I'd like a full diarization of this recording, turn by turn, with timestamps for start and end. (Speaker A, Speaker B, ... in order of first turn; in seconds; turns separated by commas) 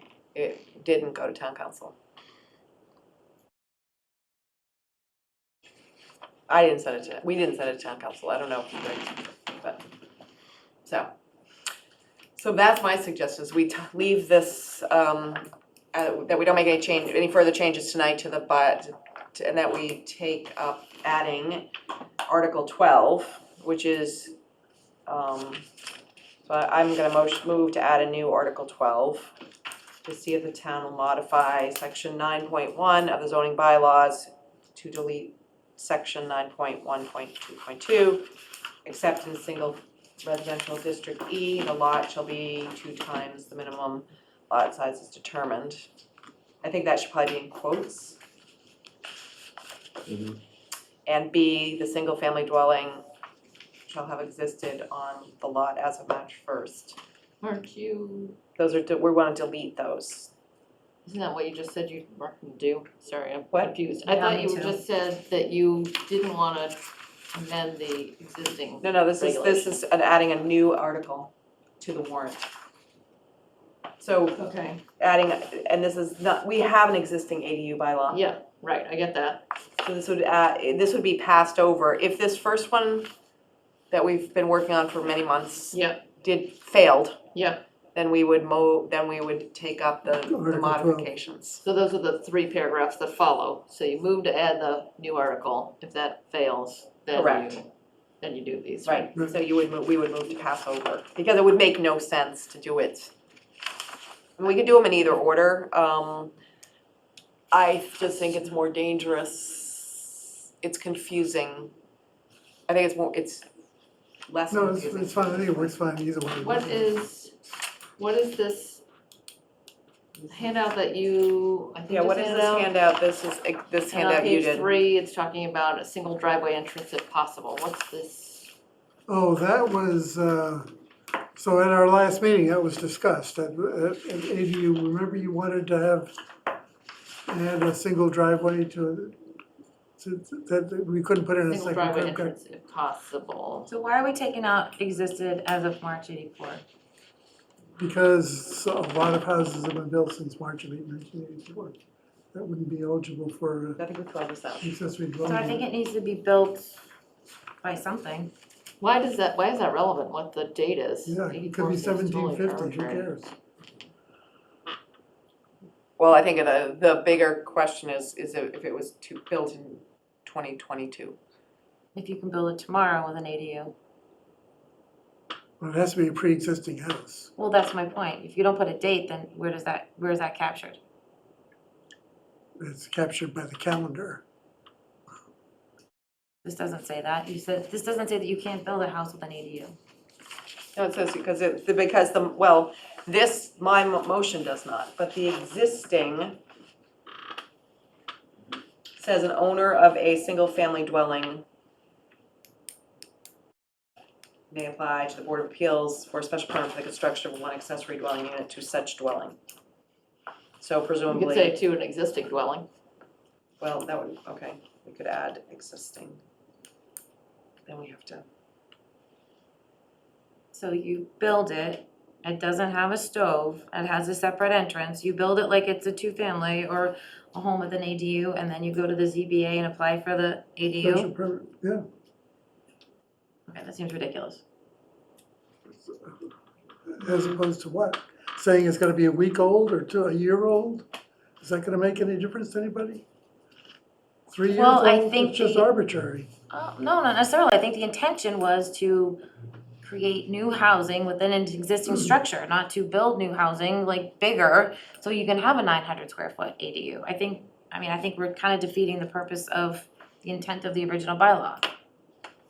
Speaker A: 0.3-2.0, Speaker A: 6.5-9.8, Speaker A: 10.8-11.1, Speaker A: 12.4-21.7, Speaker A: 22.3-24.3, Speaker A: 25.1-25.6, Speaker A: 26.4-29.3, Speaker A: 30.0-38.3, Speaker A: 38.9-45.9, Speaker A: 46.6-48.2, Speaker A: 51.1-53.0, Speaker A: 53.9-57.0, Speaker B: 57.4-58.4, Speaker A: 58.6-60.3, Speaker B: 61.0-69.8, Speaker C: 64.1-64.8, Speaker A: 68.8-72.5, Speaker A: 74.0-74.4, Speaker B: 74.4-74.8, Speaker A: 75.0-78.2, Speaker B: 78.1-79.4, Speaker A: 79.8-83.1, Speaker A: 83.9-87.2, Speaker B: 85.7-86.0, Speaker B: 87.3-87.6, Speaker A: 87.9-91.6, Speaker D: 90.3-91.1, Speaker B: 91.6-97.7, Speaker A: 97.1-97.6, Speaker B: 98.2-99.1, Speaker A: 98.8-103.1, Speaker A: 104.4-106.3, Speaker A: 107.5-111.7, Speaker A: 112.7-113.5, Speaker A: 114.3-115.7, Speaker D: 114.5-116.9, Speaker B: 116.4-117.3, Speaker B: 118.0-118.8, Speaker B: 120.2-122.7, Speaker A: 121.9-124.7, Speaker B: 123.9-128.5, Speaker D: 129.1-130.7, Speaker D: 131.4-136.2, Speaker D: 137.3-139.2, Speaker D: 140.0-142.3, Speaker B: 141.5-143.7, Speaker C: 143.7-146.6, Speaker D: 147.8-151.8, Speaker D: 152.3-153.8, Speaker A: 153.8-154.7, Speaker D: 154.6-155.7, Speaker C: 155.2-156.8, Speaker C: 157.6-158.3, Speaker B: 158.8-163.1, Speaker D: 161.1-163.3, Speaker A: 166.0-171.2, Speaker C: 171.9-173.7, Speaker D: 175.6-177.3, Speaker C: 177.4-180.8, Speaker D: 182.6-184.2, Speaker C: 186.4-189.8, Speaker A: 190.8-196.4, Speaker A: 199.0-201.4, Speaker A: 204.5-209.4, Speaker A: 210.6-211.6, Speaker B: 211.1-212.7, Speaker A: 213.6-216.2, Speaker A: 217.7-218.2, Speaker C: 220.5-231.1, Speaker D: 230.8-231.8, Speaker C: 233.5-234.4, Speaker D: 235.7-236.2, Speaker D: 236.9-240.9, Speaker D: 241.4-243.1, Speaker D: 244.3-246.3, Speaker C: 244.5-245.7, Speaker C: 246.5-249.2, Speaker C: 249.8-261.7